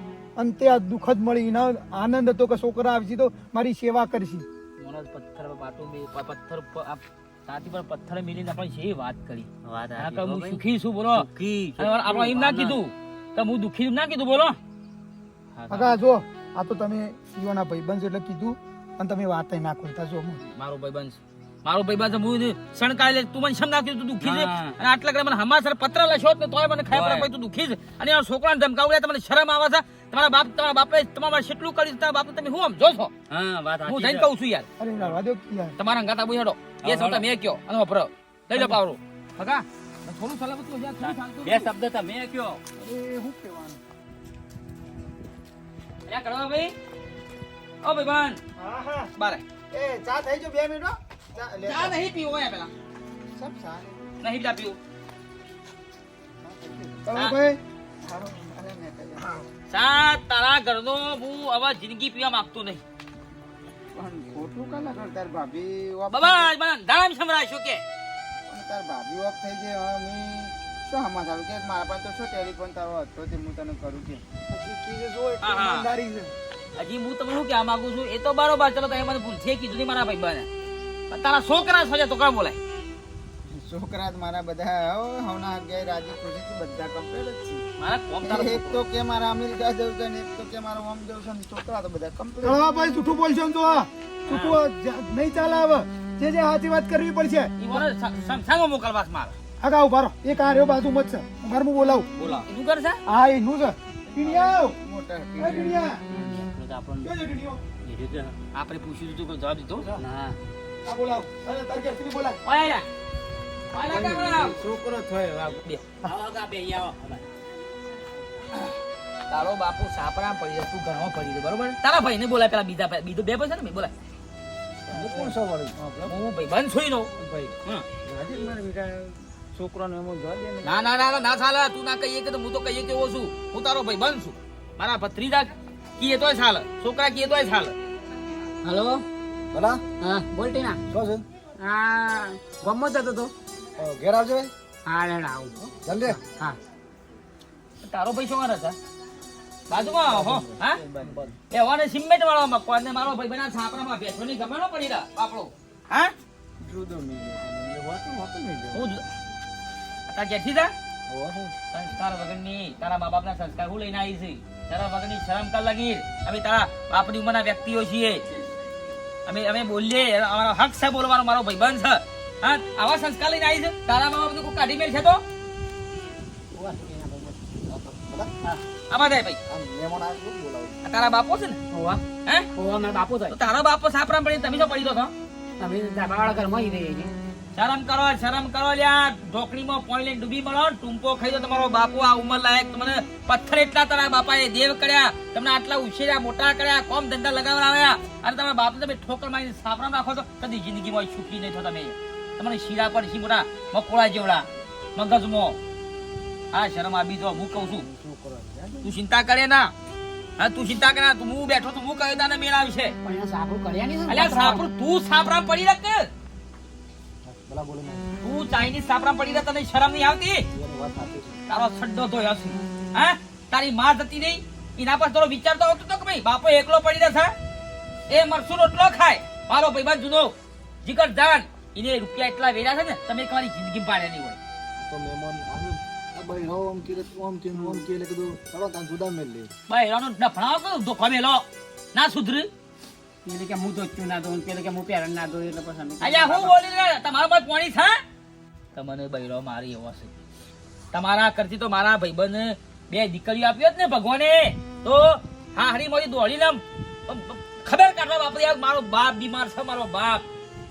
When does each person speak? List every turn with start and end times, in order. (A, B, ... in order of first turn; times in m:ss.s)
0:00.4-0:04.4 A
0:04.8-0:11.3 B
0:09.6-0:12.8 C
0:11.8-0:14.6 B
0:15.5-0:16.0 B
0:15.7-0:20.4 A
0:20.4-0:33.1 B
0:24.2-0:24.8 C
0:26.9-0:27.3 C
0:33.3-0:34.3 C
0:33.9-0:34.7 B
0:34.8-0:35.8 A
0:35.8-0:41.7 B
0:36.8-0:37.2 C
0:38.5-0:38.8 A
0:41.0-0:42.6 C
0:42.8-0:43.8 A
0:46.1-0:46.8 B
0:47.8-0:48.4 B
0:48.6-0:49.1 D
0:49.2-0:49.4 B
0:49.7-0:52.0 D
0:51.6-0:52.7 B
0:53.4-0:54.1 D
0:54.2-0:54.8 B
0:56.4-0:57.1 D
0:57.1-0:57.6 A
0:58.0-0:59.4 D
0:59.7-1:02.8 B
1:03.9-1:06.5 D
1:06.1-1:07.8 B
1:08.5-1:14.2 D
1:14.5-1:16.3 A
1:15.4-1:15.9 B
1:16.8-1:20.5 B
1:21.1-1:22.6 B
1:23.5-1:27.6 D
1:27.8-1:28.8 B
1:28.2-1:32.6 D
1:32.4-1:37.8 A
1:34.3-1:34.6 B
1:37.6-1:39.4 B
1:39.6-1:42.1 A
1:42.2-1:43.0 B
1:43.1-1:44.8 A
1:44.1-1:45.9 D
1:45.4-1:46.0 A
1:46.1-1:47.1 C
1:47.0-1:47.6 A
1:47.8-1:48.4 C
1:48.5-1:49.9 B
1:50.0-1:50.4 C
1:50.9-1:52.4 A
1:52.4-1:52.9 B
1:53.7-1:54.6 B
1:53.8-1:55.6 D
1:56.0-1:57.3 C
1:59.3-2:03.9 B
2:04.9-2:06.2 D
2:04.9-2:05.7 E
2:06.1-2:07.1 B
2:07.2-2:10.8 D
2:10.6-2:17.8 B
2:18.6-2:19.0 F
2:19.5-2:19.8 E
2:20.0-2:20.8 F
2:20.9-2:21.2 E
2:21.6-2:23.3 F
2:23.8-2:24.5 E
2:24.9-2:26.6 F
2:25.8-2:26.2 E
2:27.8-2:28.8 B
2:29.7-2:30.8 B
2:30.2-2:31.3 D
2:31.5-2:36.1 B
2:36.6-2:38.9 D
2:38.7-2:39.0 B
2:40.1-2:40.7 B
2:41.7-2:48.2 B
2:49.3-2:55.2 B
2:56.5-2:57.5 F
2:57.7-2:58.3 E
2:58.9-2:59.4 B
2:59.5-3:00.7 E
3:00.8-3:01.6 B
3:01.7-3:02.0 F
3:02.5-3:03.4 F
3:03.3-3:05.1 B
3:05.6-3:07.2 F
3:07.6-3:25.6 B
3:26.5-3:27.9 B
3:27.8-3:28.8 E
3:28.8-3:29.7 B
3:30.4-3:33.0 B
3:33.0-3:34.7 F
3:34.1-3:36.1 B
3:37.3-3:38.0 E
3:38.2-3:40.4 B
3:40.6-3:41.4 E
3:41.5-3:47.3 B
3:48.1-3:54.4 B
3:54.8-3:55.6 E
3:56.2-3:59.5 E
3:57.5-3:57.9 F
3:59.7-4:02.5 B
4:03.2-4:06.5 F
4:06.0-4:08.0 B
4:08.7-4:10.1 B
4:10.9-4:20.2 B